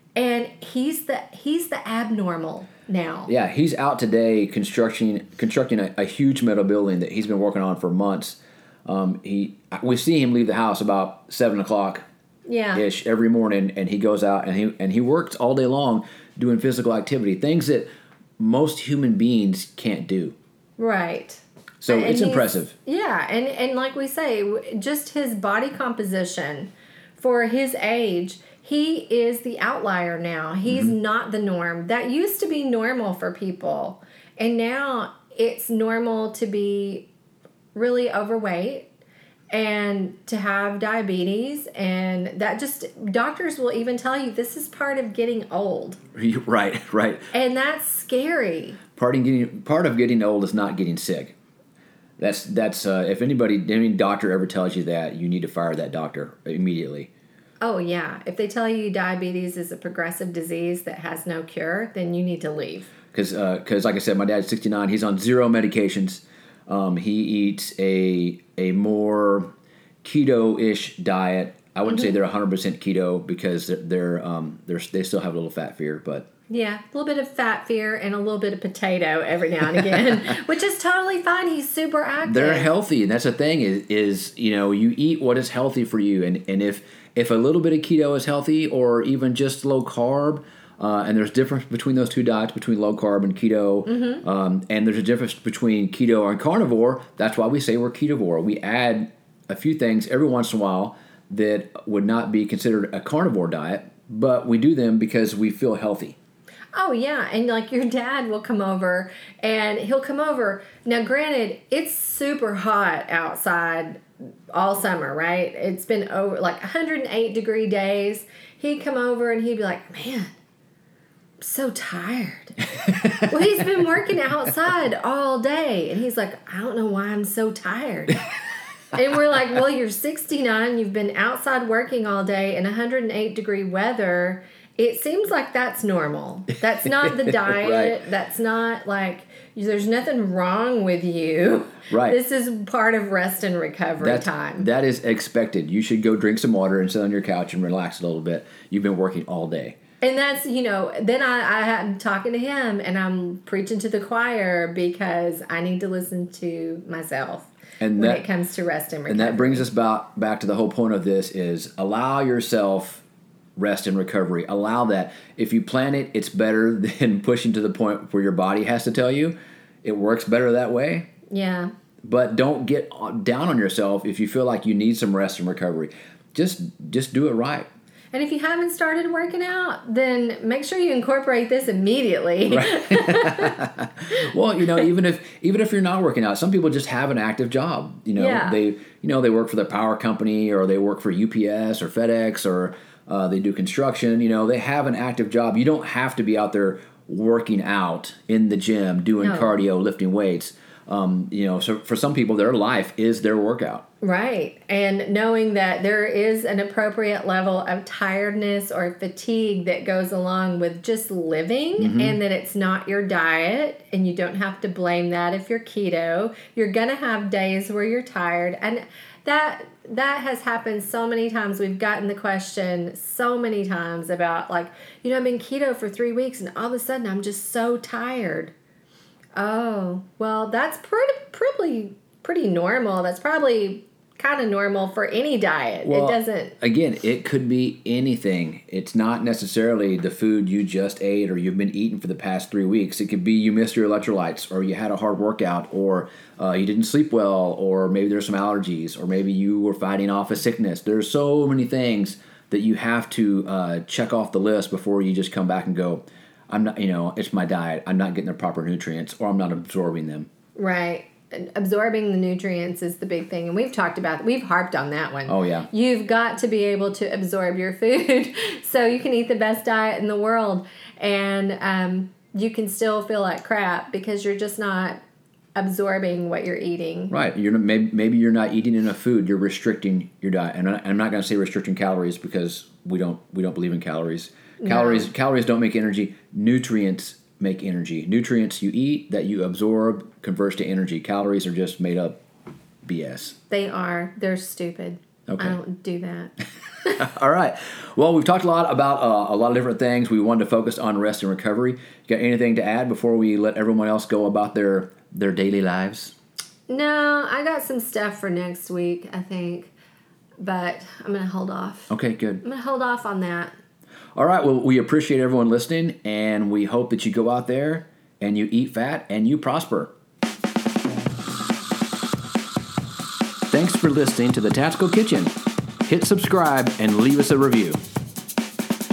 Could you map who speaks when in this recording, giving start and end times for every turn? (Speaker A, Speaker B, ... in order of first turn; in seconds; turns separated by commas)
Speaker A: 0.2-3.3, Speaker B: 3.3-12.0, Speaker A: 12.5-12.8, Speaker B: 12.7-20.4, Speaker A: 20.8-37.1, Speaker B: 21.8-22.7, Speaker B: 30.7-30.9, Speaker A: 37.8-38.9, Speaker A: 39.5-46.0, Speaker B: 46.1-47.3, Speaker A: 47.3-48.8, Speaker B: 49.0-51.4, Speaker B: 52.2-57.1, Speaker A: 57.6-62.9, Speaker B: 63.1-69.5, Speaker B: 70.0-76.3, Speaker A: 76.5-82.7, Speaker B: 82.3-106.2, Speaker A: 93.9-94.2, Speaker A: 106.8-120.3, Speaker A: 121.4-122.6, Speaker B: 122.9-123.3, Speaker A: 123.2-128.3, Speaker A: 128.9-144.7, Speaker B: 137.0-138.0, Speaker B: 141.9-142.2, Speaker B: 144.0-149.8, Speaker A: 150.0-159.7, Speaker B: 157.8-158.2, Speaker B: 159.1-163.0, Speaker B: 163.6-171.1, Speaker A: 171.3-171.7, Speaker B: 172.0-177.7, Speaker A: 178.1-183.6, Speaker B: 182.5-203.9, Speaker A: 188.2-188.6, Speaker A: 199.2-199.6, Speaker A: 204.0-228.5, Speaker B: 211.8-212.2, Speaker A: 229.4-236.6, Speaker B: 235.8-260.3, Speaker A: 260.6-275.0, Speaker B: 265.3-265.7, Speaker A: 275.6-277.1, Speaker B: 277.1-292.2, Speaker A: 284.6-285.1, Speaker B: 292.9-293.4, Speaker A: 293.5-296.3, Speaker B: 295.3-295.6, Speaker B: 296.9-306.1, Speaker A: 306.7-309.7, Speaker A: 310.4-313.5, Speaker B: 311.9-312.4, Speaker B: 314.2-319.9, Speaker B: 323.5-325.3, Speaker B: 325.9-327.8